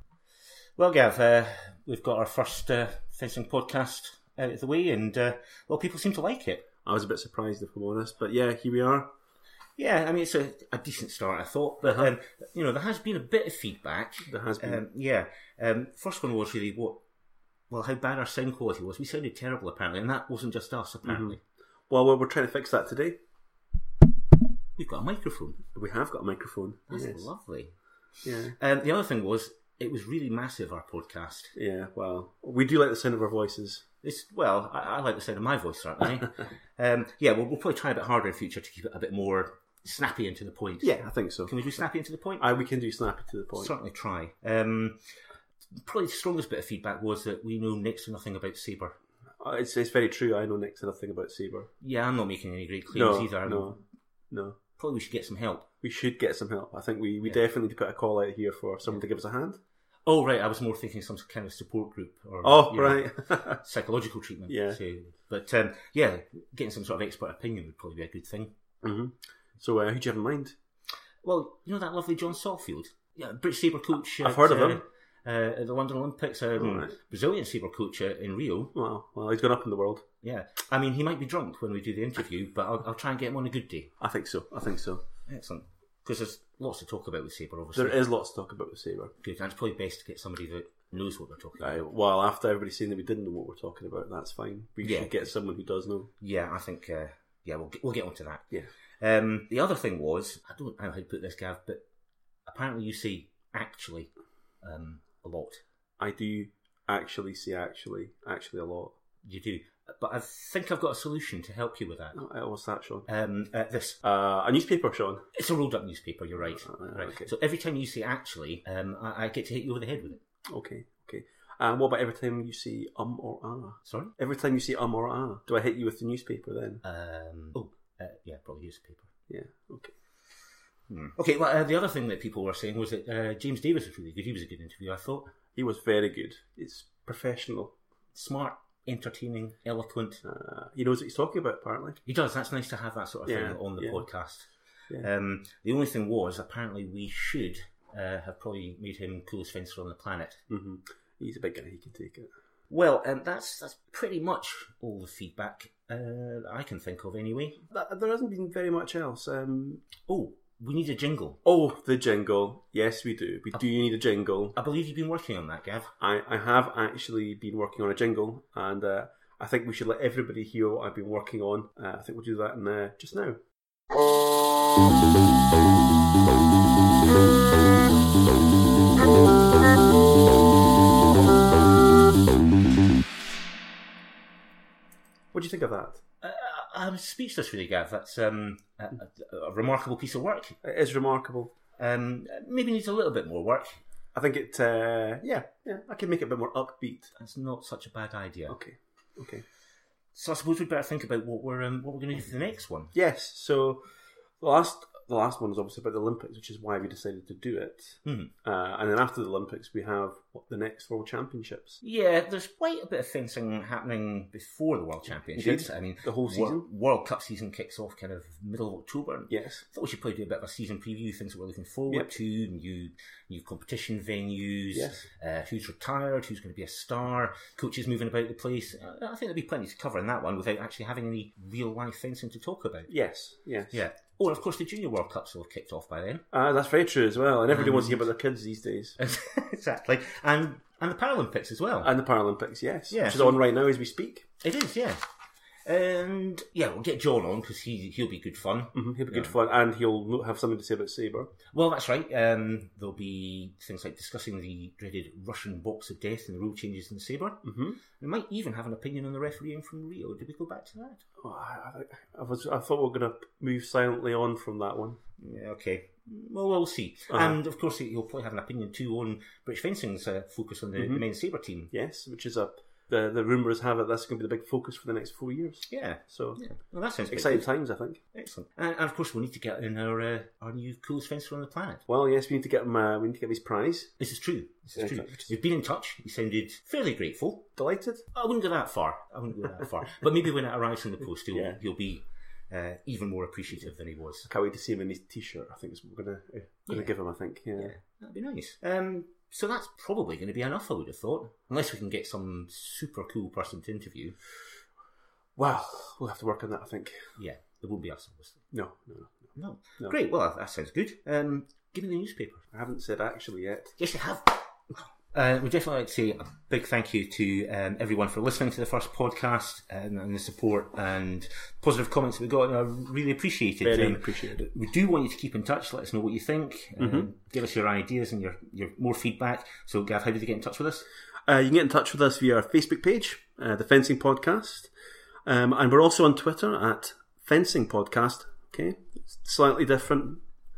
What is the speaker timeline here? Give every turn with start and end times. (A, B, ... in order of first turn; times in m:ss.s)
0:00.8-0:06.7 A
0:06.8-0:09.1 B
0:09.8-0:17.0 A
0:11.8-0:12.1 B
0:14.2-0:14.8 B
0:17.7-0:21.4 A
0:21.0-0:21.4 B
0:21.9-0:23.2 B
0:24.8-0:25.6 A
0:25.7-0:27.3 B
0:26.9-0:27.7 A
0:28.2-0:28.6 B
0:28.4-0:31.5 A
0:31.6-0:33.8 B
0:34.0-0:42.5 A
0:40.8-0:41.5 B
0:42.4-0:43.7 B
0:43.6-0:45.2 A
0:45.8-0:49.0 A
0:49.4-0:51.7 B
0:51.8-0:53.8 A
0:52.9-0:54.6 B
0:54.8-0:55.7 A
0:55.8-0:59.6 B
1:00.1-1:08.5 A
1:02.4-1:03.6 B
1:04.5-1:04.8 B
1:08.8-1:10.6 B
1:11.2-1:18.7 A
1:14.2-1:14.8 B
1:16.6-1:16.9 B
1:18.7-1:20.0 B
1:20.2-1:23.9 A
1:24.0-1:25.0 B
1:25.3-1:28.0 A
1:27.8-1:29.1 B
1:29.2-1:31.9 A
1:31.6-1:36.1 B
1:34.8-1:35.3 A
1:36.2-1:41.8 A
1:42.5-1:45.6 A
1:46.0-1:49.0 B
1:49.2-1:52.2 A
1:52.2-1:53.1 B
1:53.1-1:54.0 A
1:54.0-1:55.3 B
1:55.3-2:00.2 A
1:56.6-1:57.3 B
2:00.5-2:06.8 B
2:03.9-2:04.1 A
2:06.8-2:09.1 A
2:09.3-2:10.0 B
2:10.9-2:15.3 A
2:15.6-2:17.8 B
2:18.1-2:20.2 A
2:20.2-2:22.0 B
2:22.1-2:30.4 A
2:23.3-2:24.1 B
2:30.5-2:32.3 B
2:32.7-2:37.6 A
2:37.7-2:39.9 B
2:40.1-2:41.4 A
2:41.4-2:44.6 B
2:44.6-2:45.9 A
2:46.0-2:53.4 B
3:05.3-3:06.0 B
3:06.2-3:10.6 A
3:10.6-3:11.5 B
3:11.8-3:13.8 A
3:14.1-3:17.1 B
3:17.2-3:18.6 A
3:18.5-3:19.4 B
3:20.1-3:22.9 A
3:22.9-3:31.8 B
3:28.0-3:28.3 A
3:31.8-3:52.9 A
3:35.3-3:36.7 B
3:39.3-3:39.6 B
3:44.7-3:45.1 B
3:52.9-3:53.8 B
3:53.7-3:56.2 A
3:56.3-3:59.0 B
3:57.5-3:58.1 A
3:59.0-4:01.9 A
4:01.8-4:04.3 B
4:02.9-4:03.4 A
4:04.4-4:05.0 A
4:05.7-4:09.4 A
4:08.7-4:11.3 B
4:11.5-4:21.0 A
4:17.4-4:17.8 B
4:21.2-4:25.0 B
4:25.2-4:31.7 A
4:27.1-4:27.4 B
4:30.8-4:31.0 B
4:31.7-4:36.4 B
4:35.7-4:37.5 A
4:37.1-4:38.0 B
4:38.1-4:41.8 A
4:41.9-4:44.0 B
4:44.0-4:47.5 A
4:44.8-4:45.3 B
4:47.6-4:48.1 B
4:48.1-4:54.3 A
4:51.3-4:51.6 B
4:54.3-4:57.7 B
4:57.6-5:04.2 A
5:05.4-5:07.1 B
5:07.2-5:08.4 A
5:08.5-5:09.9 B
5:09.4-5:12.5 A
5:12.5-5:13.8 B
5:13.8-5:14.4 A
5:15.1-5:30.9 A
5:23.6-5:24.5 B
5:26.8-5:27.1 B
5:31.2-5:34.7 B
5:35.2-5:40.2 B